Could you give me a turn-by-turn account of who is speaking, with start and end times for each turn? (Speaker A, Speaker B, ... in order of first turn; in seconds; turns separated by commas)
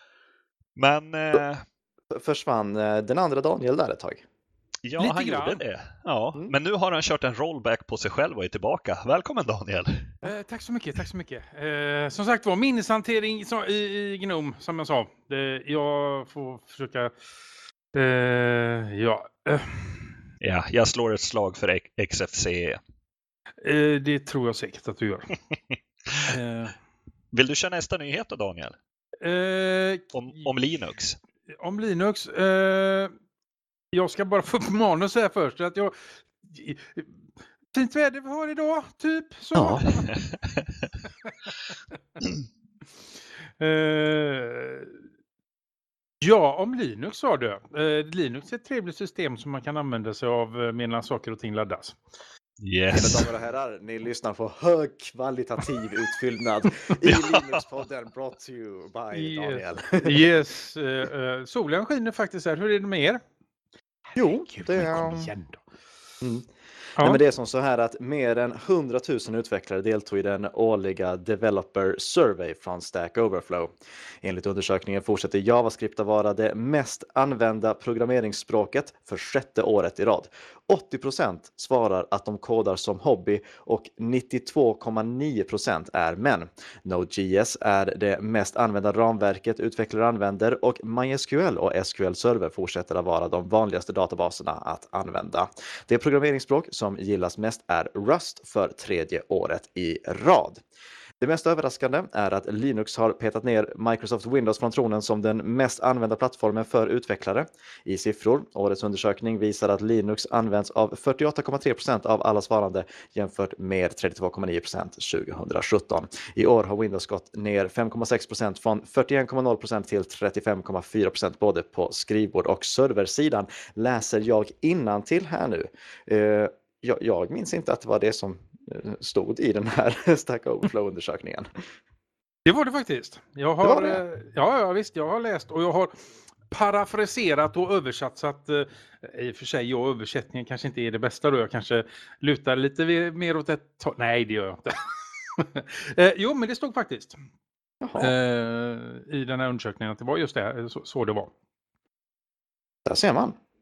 Speaker A: 0.8-1.6, Speaker B: 2.1-4.2, Speaker A: 4.8-10.2, Speaker C: 5.0-5.6, Speaker C: 10.2-17.1, Speaker C: 17.9-20.1, Speaker A: 20.4-22.8, Speaker C: 23.6-25.4, Speaker A: 26.1-26.3, Speaker C: 26.2-26.7, Speaker A: 27.3-28.8, Speaker C: 29.2-30.2, Speaker A: 30.1-31.2, Speaker C: 31.5-33.1, Speaker C: 33.9-37.1, Speaker C: 37.7-40.2, Speaker A: 39.8-40.9, Speaker C: 41.2-41.5, Speaker C: 43.6-45.0, Speaker C: 46.2-52.0, Speaker A: 52.6-53.3, Speaker B: 52.9-60.2, Speaker A: 57.0-57.6, Speaker C: 59.1-63.2, Speaker C: 64.1-65.6, Speaker B: 64.2-65.3, Speaker B: 67.0-73.7, Speaker B: 74.2-100.6, Speaker B: 101.2-131.5, Speaker C: 132.4-135.9, Speaker B: 133.6-134.0, Speaker C: 136.5-147.2, Speaker B: 147.8-148.1, Speaker C: 148.0-151.3, Speaker B: 152.8-153.3